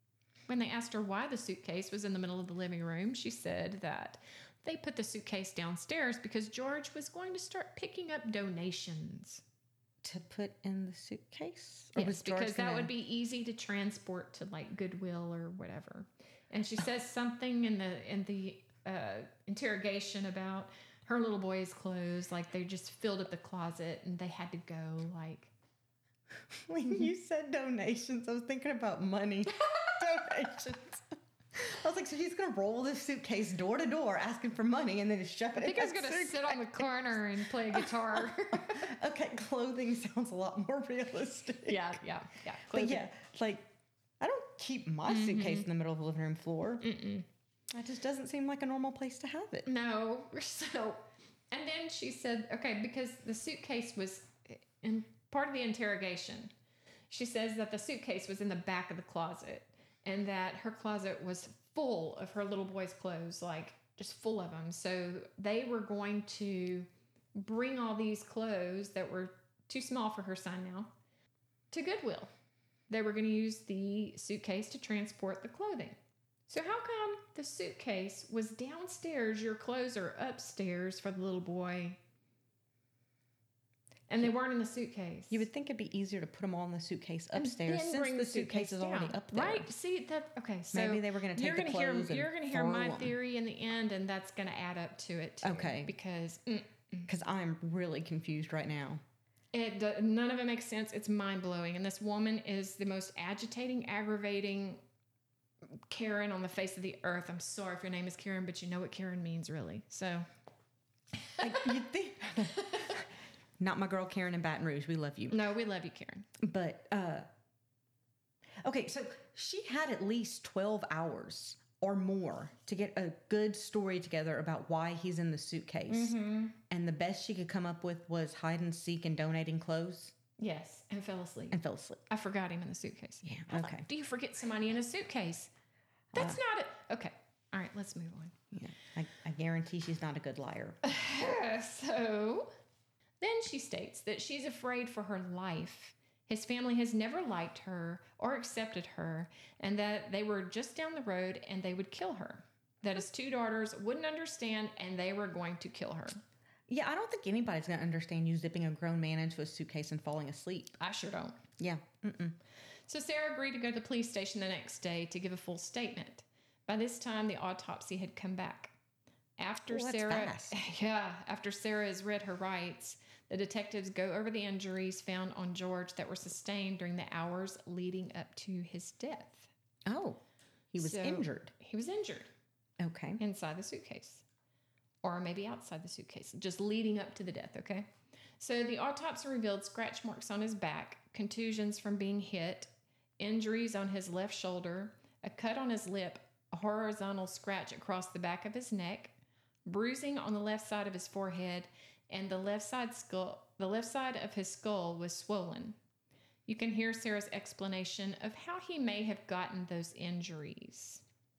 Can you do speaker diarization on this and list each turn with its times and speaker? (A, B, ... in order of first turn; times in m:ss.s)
0:00.5-0:09.4 A
0:10.0-0:12.9 B
0:11.9-0:25.5 A
0:26.5-0:36.9 B
0:35.6-0:38.9 A
0:37.7-0:42.0 B
0:41.7-0:43.0 A
0:42.7-0:43.7 B
0:44.2-0:46.8 B
0:45.1-0:45.7 A
0:46.8-0:47.2 A
0:47.7-0:49.7 B
0:49.6-0:56.5 A
0:57.1-1:10.9 A
1:11.7-1:12.3 A
1:12.9-1:16.0 A
1:16.5-1:22.0 A
1:24.1-1:25.4 A
1:25.3-1:29.7 B
1:27.4-1:37.1 A
1:30.7-1:33.1 B
1:35.4-1:35.9 B
1:37.1-1:39.0 B
1:39.5-1:44.8 A
1:45.9-1:50.3 A
1:51.4-1:53.0 B
1:53.6-1:55.4 B
1:55.3-1:56.3 A
1:56.4-1:57.3 B
1:58.6-2:10.1 B
2:05.9-2:06.5 A
2:10.4-2:15.5 A
2:11.5-2:12.0 B
2:13.2-2:13.9 B
2:16.1-2:16.4 B
2:16.1-2:18.3 A
2:18.5-2:20.8 B
2:20.8-2:22.5 A
2:23.2-2:36.2 A
2:36.7-2:40.8 B
2:40.8-2:41.4 A
2:41.6-2:42.4 B
2:42.9-2:48.7 A
2:49.4-2:59.5 A
2:49.7-2:50.6 B
2:59.8-3:00.2 B
3:00.7-3:01.5 B
3:00.8-3:02.3 A
3:02.8-3:03.2 B
3:03.2-3:04.2 A
3:05.0-3:07.9 A
3:08.4-3:19.1 A
3:19.6-3:25.8 A
3:26.5-3:31.0 A